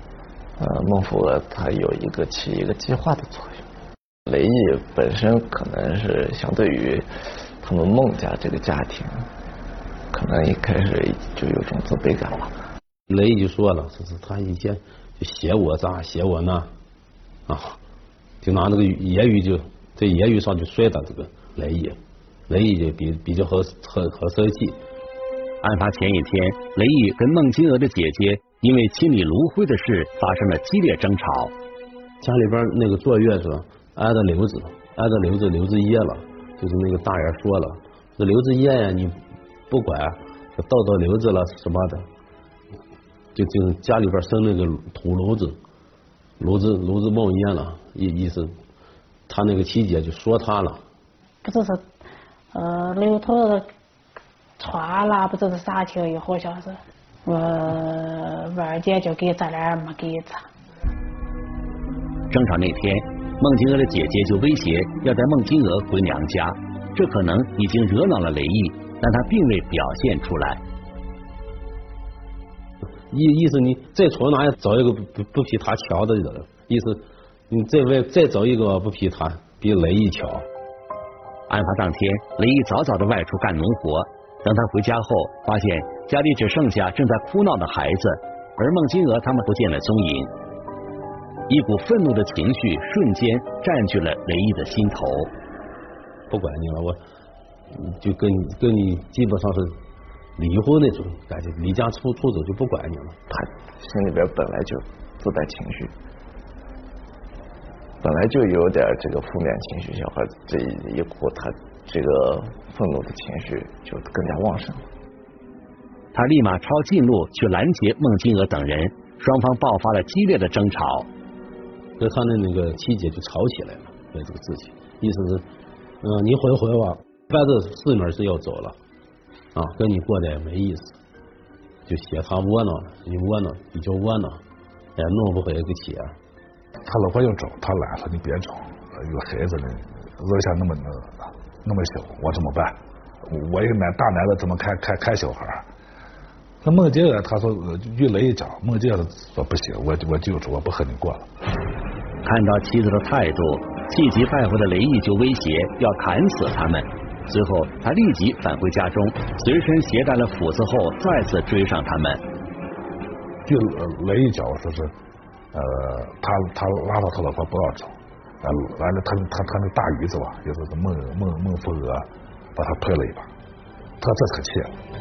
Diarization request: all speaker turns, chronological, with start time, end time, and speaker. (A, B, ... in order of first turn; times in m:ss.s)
0:00.6-0:03.6 A
0:04.2-0:09.3 A
0:10.1-0:12.5 A
0:13.1-0:16.7 B
0:17.5-0:17.8 B
0:18.4-0:24.8 B
0:25.6-0:31.5 C
0:32.2-0:42.1 B
0:43.3-0:45.6 B
0:46.4-0:48.6 B
0:49.3-0:50.8 B
0:51.4-0:51.8 D
0:52.5-0:53.7 D
0:54.6-1:00.5 D
1:02.3-1:10.6 C
1:13.1-1:20.4 B
1:21.5-1:30.3 C
1:31.5-1:35.3 C
1:36.3-1:37.0 B
1:37.7-1:39.8 B
1:40.4-1:43.2 B
1:43.3-1:45.9 A
1:48.0-1:54.9 A
1:56.1-2:01.1 C
2:02.0-2:05.4 B
2:06.0-2:08.8 B
2:09.5-2:10.9 B
2:11.9-2:14.4 B
2:15.0-2:16.1 B
2:16.8-2:25.6 E
2:26.6-2:31.3 E
2:32.2-2:42.2 C
2:43.4-2:44.9 E
2:45.5-2:53.3 E
2:54.0-2:54.8 E